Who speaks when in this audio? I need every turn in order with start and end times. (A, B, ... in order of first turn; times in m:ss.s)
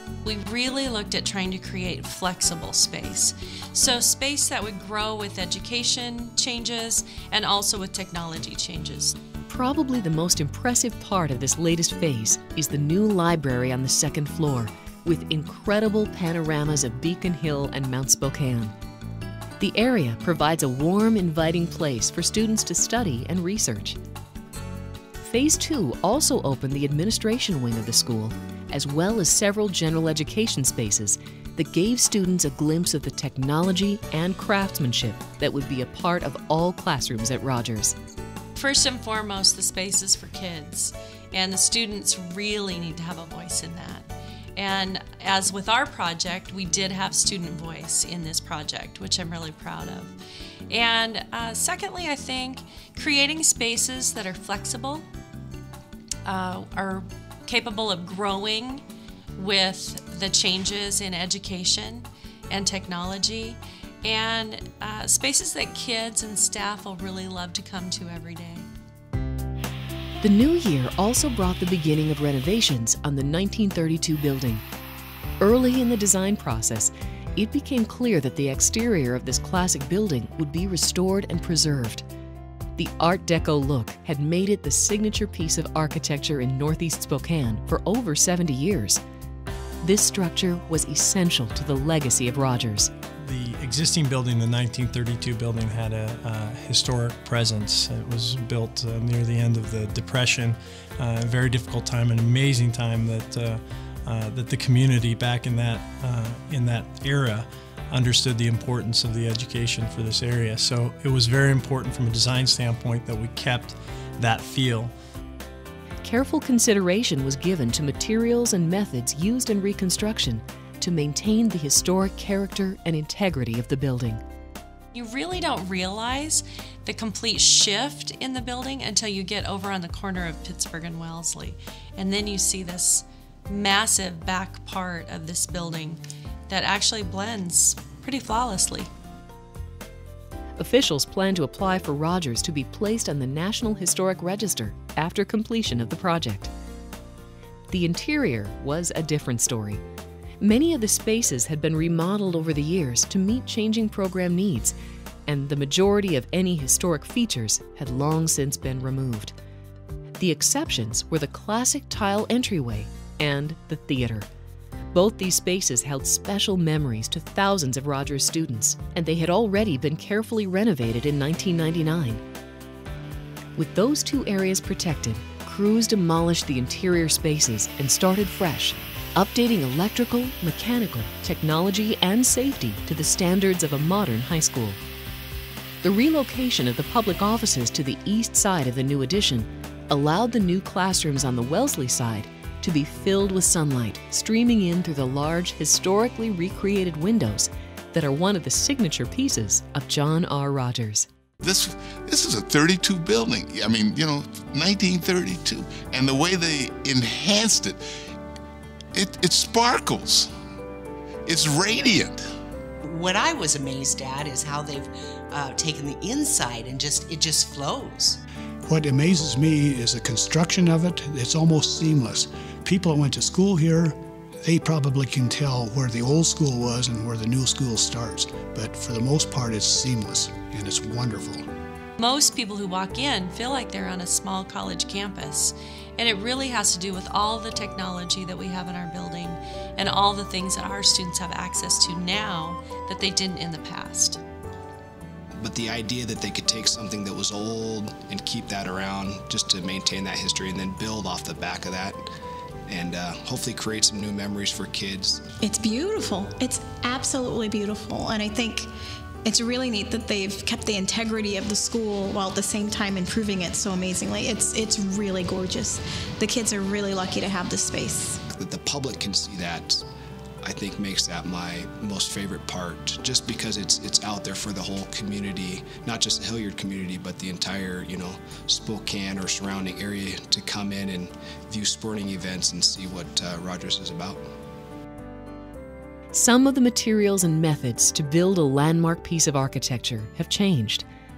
0:00.2-0:09.2 A
0:09.5-0:18.7 B
0:19.6-0:24.0 B
0:25.2-0:38.0 B
0:38.6-0:50.1 A
0:50.7-0:55.0 A
0:56.3-0:58.8 A
0:59.4-1:08.7 A
1:10.2-1:14.6 B
1:15.4-1:22.0 B
1:22.8-1:29.0 B
1:29.8-1:32.9 B
1:33.2-1:54.9 C
1:56.0-2:04.2 B
2:04.9-2:18.9 A
2:20.6-2:26.5 B
2:27.7-2:29.8 B
2:30.4-2:34.8 B
2:35.3-2:39.3 B
2:40.2-2:44.3 B
2:44.9-2:52.2 B
2:53.6-3:04.8 B
3:05.8-3:21.1 B
3:21.4-3:27.8 D
3:28.9-3:30.3 D
3:31.3-3:32.2 D
3:32.8-3:38.2 E
3:38.7-3:51.4 F
3:52.0-4:04.2 A
4:05.4-4:12.0 G
4:12.7-4:15.2 G
4:15.4-4:18.7 H
4:19.2-4:28.2 H
4:28.3-4:29.8 G
4:30.4-4:44.2 G
4:46.1-4:50.9 B